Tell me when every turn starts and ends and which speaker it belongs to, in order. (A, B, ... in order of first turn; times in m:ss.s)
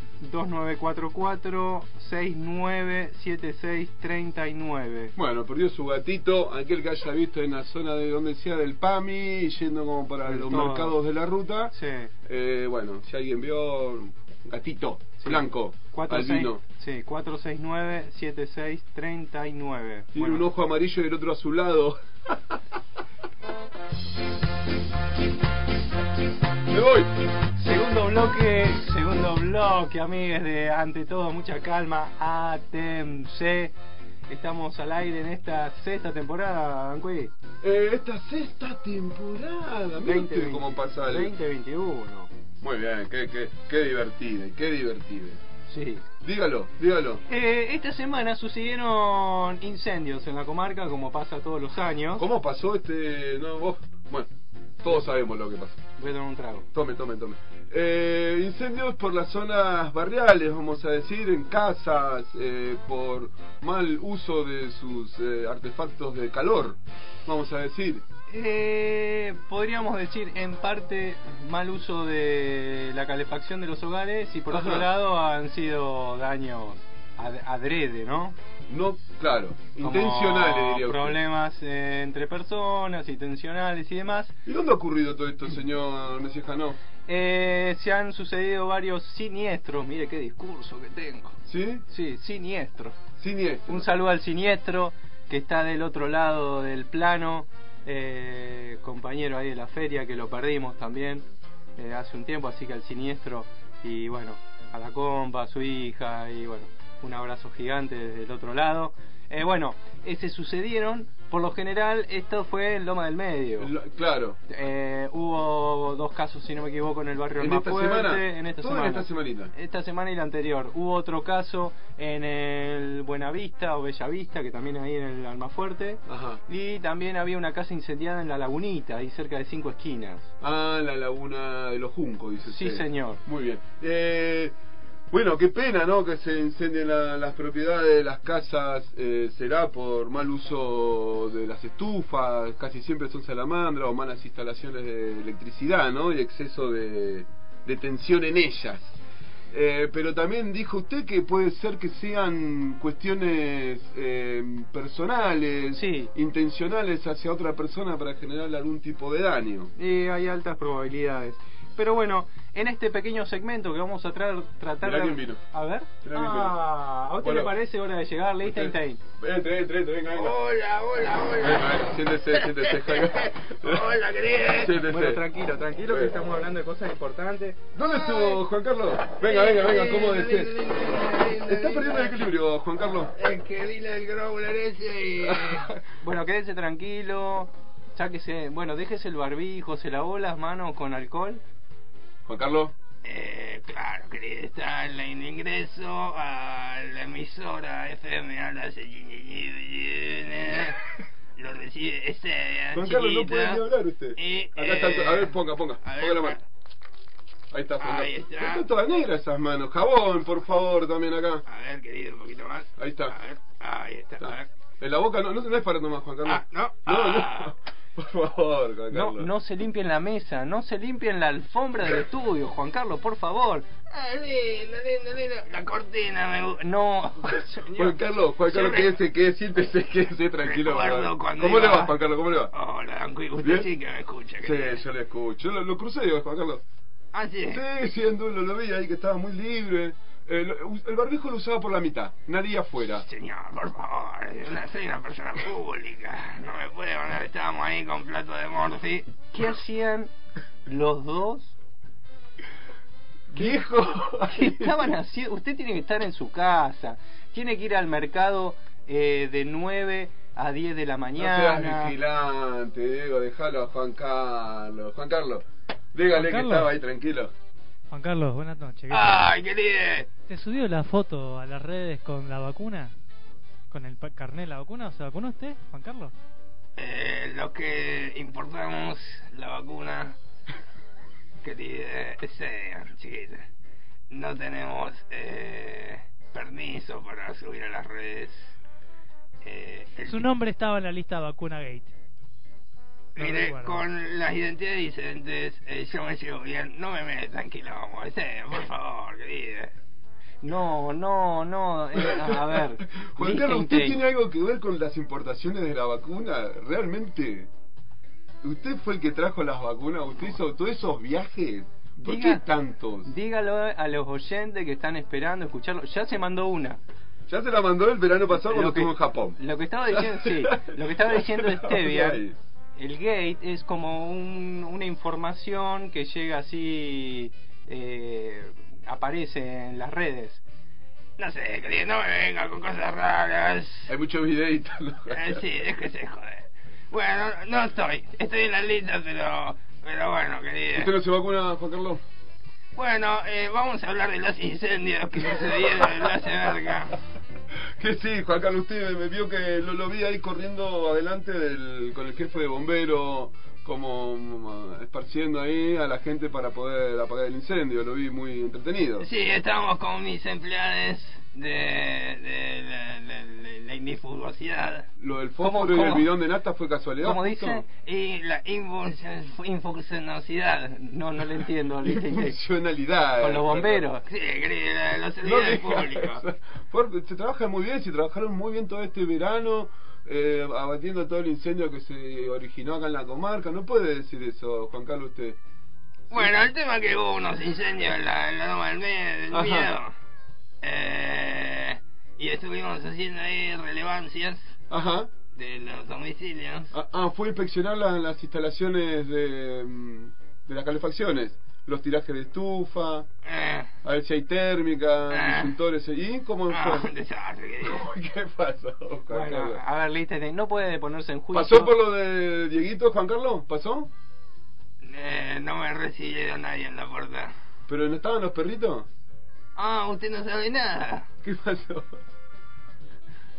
0:00.2-0:05.1 A
0:05.2-0:11.7 B
0:10.2-0:11.0 A
0:11.7-0:12.1 A
0:12.2-0:16.6 B
0:15.2-0:20.4 A
0:20.2-0:22.6 B
0:26.7-0:27.1 B
0:27.6-0:33.7 A
0:34.3-0:37.3 A
0:37.6-0:41.3 B
0:40.0-0:42.3 A
0:42.6-0:45.4 B
0:45.7-0:46.0 A
0:46.2-0:47.2 B
0:47.3-0:52.2 A
0:52.2-0:54.3 B
0:54.8-0:55.8 B
0:56.0-0:56.7 A
0:56.7-1:08.0 B
1:08.3-1:18.4 A
1:14.5-1:14.9 B
1:18.7-1:21.2 B
1:19.8-1:24.4 A
1:24.5-1:26.8 B
1:27.1-1:33.0 A
1:31.5-1:31.8 B
1:33.2-1:33.9 B
1:33.7-1:41.2 A
1:41.8-1:53.7 A
1:53.6-1:54.4 B
1:54.5-2:10.3 A
1:57.4-1:59.5 B
2:06.1-2:06.4 B
2:10.4-2:14.6 B
2:12.5-2:13.2 A
2:15.1-2:29.0 B
2:29.5-2:39.7 B
2:35.8-2:36.1 A
2:39.8-2:49.0 A
2:44.8-2:45.4 B
2:46.0-2:46.6 B
2:47.2-2:47.6 B
2:48.4-2:50.4 B
2:50.1-2:54.8 C
2:51.4-2:53.8 B
2:54.5-2:55.3 B
2:54.8-2:57.6 A
2:55.9-2:56.3 B
2:57.8-3:00.6 B
2:57.9-2:58.4 C
2:59.1-3:02.3 C
3:01.4-3:03.1 B
3:03.1-3:05.7 C
3:05.2-3:05.7 B
3:06.0-3:11.4 A
3:12.3-3:12.7 B
3:13.0-3:20.8 C
3:21.4-3:23.6 C
3:22.7-3:26.4 B
3:24.2-3:26.4 C
3:27.5-3:31.4 B
3:27.8-3:28.7 C
3:31.5-3:34.5 C
3:32.8-3:33.2 B
3:34.2-3:39.3 B
3:36.2-3:37.5 C
3:38.9-3:43.7 A
3:43.9-3:46.6 C
3:46.6-3:48.0 A
3:47.7-3:52.5 B
3:48.5-3:49.0 C
3:50.4-3:52.0 C
3:52.5-3:54.8 C
3:53.4-3:53.7 B
3:54.4-3:56.6 B
3:57.1-3:57.6 C
3:57.5-4:03.0 B
4:03.0-4:09.2 C
4:09.3-4:10.1 A
4:10.7-4:11.6 A
4:13.3-4:14.9 B
4:14.2-4:22.0 A
4:21.2-4:27.3 B
4:26.1-4:26.7 D
4:27.9-4:29.3 D
4:28.9-4:30.1 C
4:30.3-4:32.9 D
4:33.7-4:36.1 D
4:36.8-4:40.2 C
4:41.4-4:43.5 C
4:44.1-4:48.5 C
4:49.4-4:50.3 C
4:50.0-4:51.9 D
4:53.2-4:53.8 D
4:53.2-4:59.7 C
5:00.4-5:04.0 A
5:02.0-5:07.5 B
5:08.4-5:13.1 B
5:12.0-5:12.4 A
5:13.0-5:16.8 A
5:17.3-5:22.4 B
5:18.4-5:22.2 A
5:22.8-5:30.4 A
5:31.2-5:33.9 C
5:33.9-5:35.4 B
5:35.1-5:40.9 C
5:40.7-5:42.0 B
5:42.8-5:47.0 C
5:47.8-5:59.1 B
5:59.0-6:04.9 C
6:05.0-6:07.6 B
6:05.4-6:06.1 A
6:07.0-6:07.6 A
6:07.7-6:10.9 C
6:10.9-6:12.4 A
6:11.8-6:13.8 B
6:13.2-6:14.0 A
6:14.0-6:16.2 C
6:15.2-6:25.4 B
6:26.1-6:29.9 C
6:29.3-6:29.7 B
6:30.6-6:34.6 C
6:34.7-6:35.1 B
6:35.4-6:36.7 C
6:36.7-6:43.1 B
6:43.2-6:43.7 C
6:43.8-6:46.9 B
6:45.1-6:45.5 C
6:46.5-6:47.9 C
6:47.6-6:49.6 B
6:49.1-6:51.7 A
6:51.3-6:53.9 B
6:54.8-6:57.3 C
6:57.7-6:58.9 B
6:59.6-7:01.1 C
7:01.2-7:02.0 B